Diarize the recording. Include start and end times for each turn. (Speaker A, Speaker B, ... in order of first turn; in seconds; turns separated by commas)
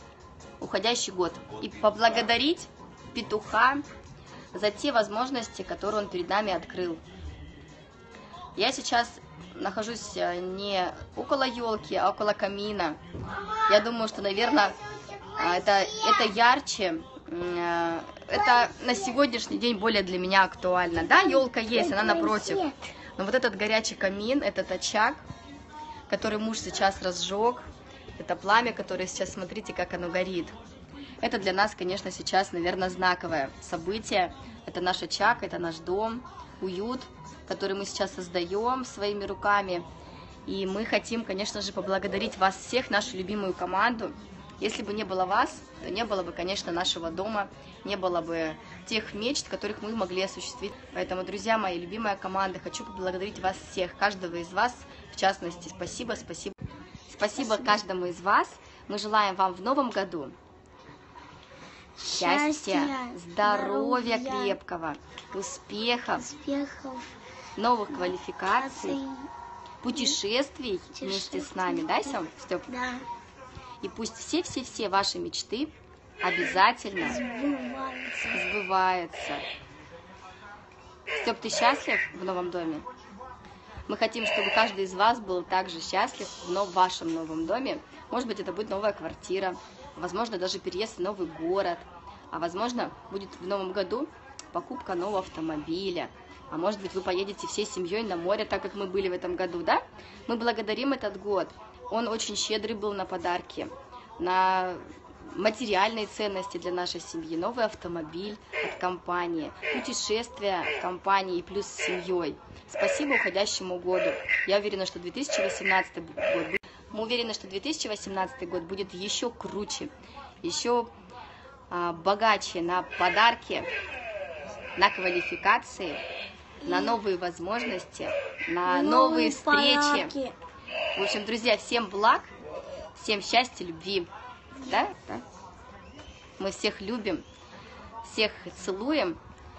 Speaker A: 0.6-3.8, Speaker A: 4.5-7.0, Speaker A: 8.6-13.0, Speaker A: 13.7-14.8, Speaker A: 15.4-25.2, Speaker B: 21.2-22.8, Speaker A: 26.1-27.6, Speaker A: 28.2-30.6, Speaker A: 31.2-39.8, Speaker A: 40.5-56.5, Speaker A: 57.1-60.3, Speaker B: 62.0-64.6, Speaker A: 62.1-66.3, Speaker B: 66.1-67.1, Speaker A: 67.5-69.0, Speaker B: 68.1-69.3, Speaker A: 69.8-72.7, Speaker B: 70.9-72.1, Speaker B: 72.7-73.0, Speaker A: 73.8-77.2, Speaker B: 77.0-78.4, Speaker A: 78.3-79.4, Speaker A: 81.1-82.8, Speaker A: 83.9-120.9, Speaker A: 121.7-123.7, Speaker A: 124.8-126.0, Speaker A: 126.6-130.1, Speaker B: 126.6-126.9, Speaker B: 128.6-130.3, Speaker A: 130.9-132.3, Speaker A: 132.9-134.1, Speaker A: 134.6-135.2, Speaker A: 136.4-137.2, Speaker A: 138.0-139.2